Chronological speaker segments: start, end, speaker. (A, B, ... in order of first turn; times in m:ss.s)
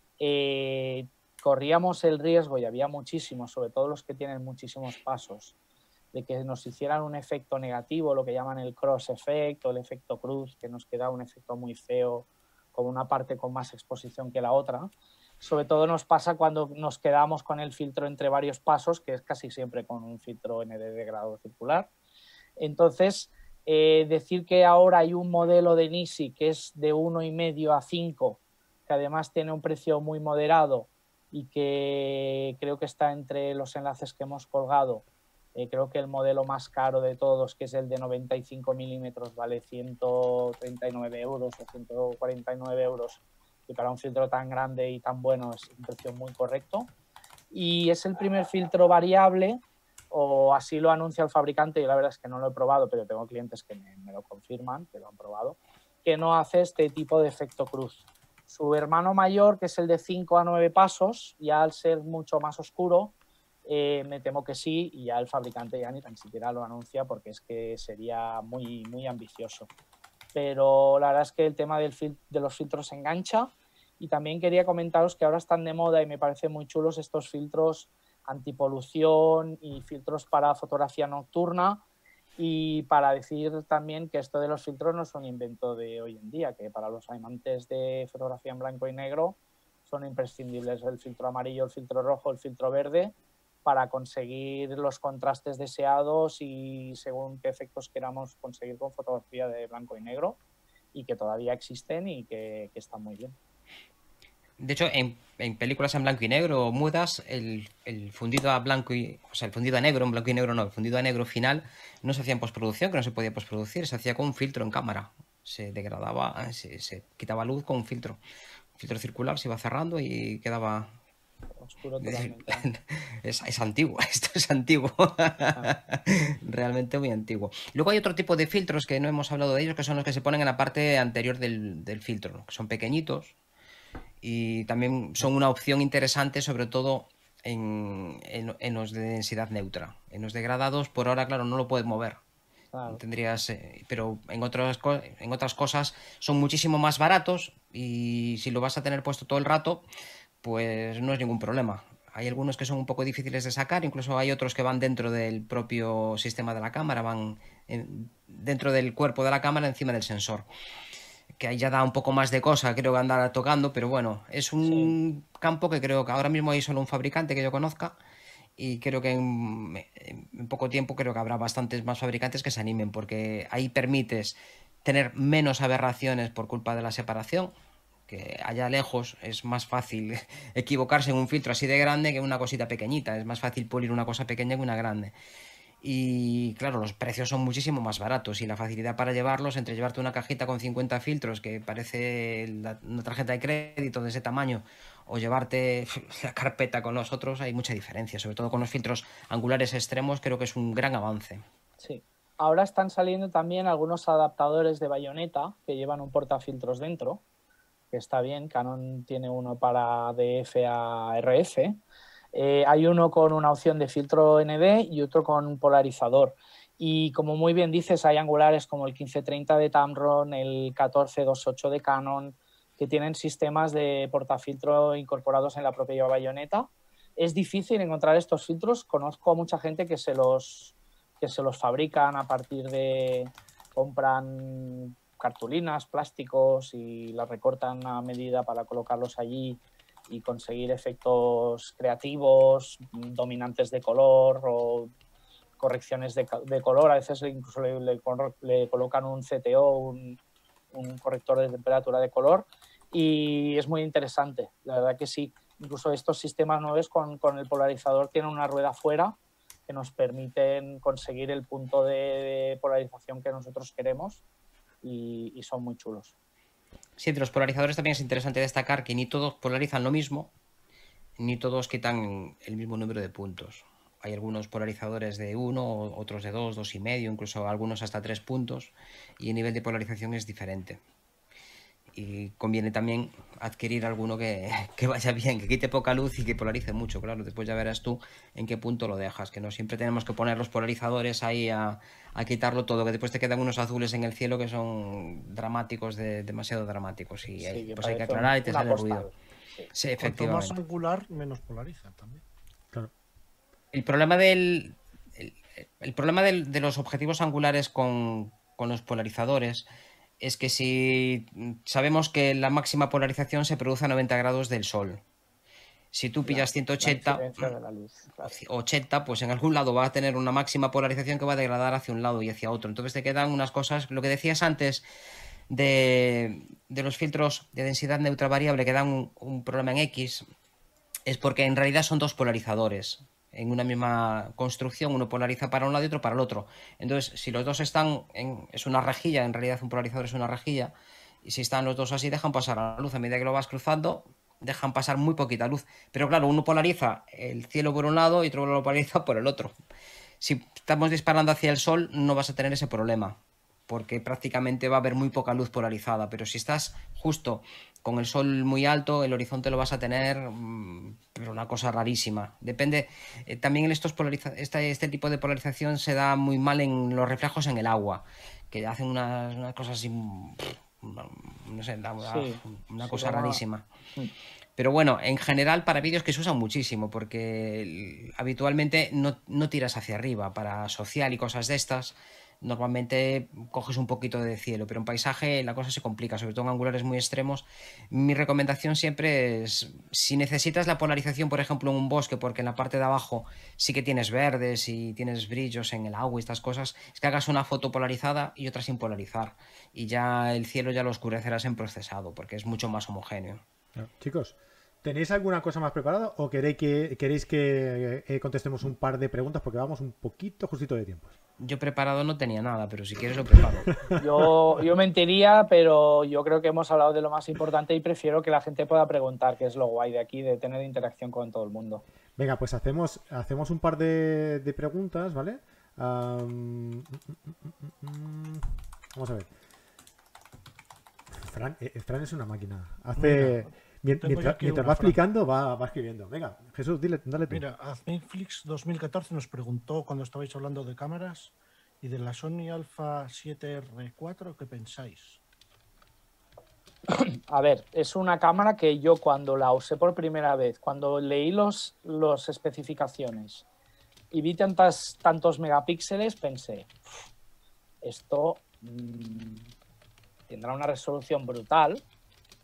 0:00.2-0:05.5 A
0:06.1-0:21.9 A
0:22.6-0:46.9 A
0:47.5-1:03.1 A
1:03.6-1:09.7 A
1:10.3-1:21.8 A
1:22.4-1:40.4 A
1:40.9-1:43.4 A
1:44.6-1:58.2 B
1:58.8-2:00.9 B
2:01.6-2:02.6 A
2:02.0-2:13.3 B
2:14.2-2:22.2 B
2:22.7-2:23.0 A
2:22.9-2:29.8 B
2:30.4-2:40.4 B
2:41.4-2:48.0 B
2:44.6-2:44.9 A
2:48.6-2:57.5 B
2:58.1-3:05.1 B
3:05.8-3:21.4 B
3:21.8-3:27.2 A
3:27.9-3:31.8 A
3:32.3-4:04.9 A
4:05.6-4:10.2 A
4:10.7-4:24.2 A
4:24.8-4:26.1 A
4:27.0-4:30.3 B
4:31.2-4:40.8 B
4:41.9-4:59.1 B
4:57.4-4:59.7 A
4:59.7-5:00.6 B
5:00.0-5:02.2 C
5:03.7-5:09.6 B
5:10.2-5:15.0 B
5:15.9-5:17.5 B
5:16.2-5:18.4 A
5:18.2-5:24.8 B
5:25.5-5:30.2 B
5:31.0-5:40.7 B
5:41.2-5:49.6 B
5:50.2-6:13.6 B
6:12.0-6:13.4 A
6:14.6-6:43.4 B
6:43.8-6:51.1 D
6:51.4-6:53.7 B
6:53.3-6:54.0 D
6:54.0-7:01.8 A
7:02.2-7:09.3 D
7:11.1-7:17.4 D
7:13.0-7:15.0 C
7:17.3-7:25.2 C
7:26.9-7:33.4 A
7:34.1-7:36.8 A
7:37.8-7:39.5 A
7:40.3-7:41.8 A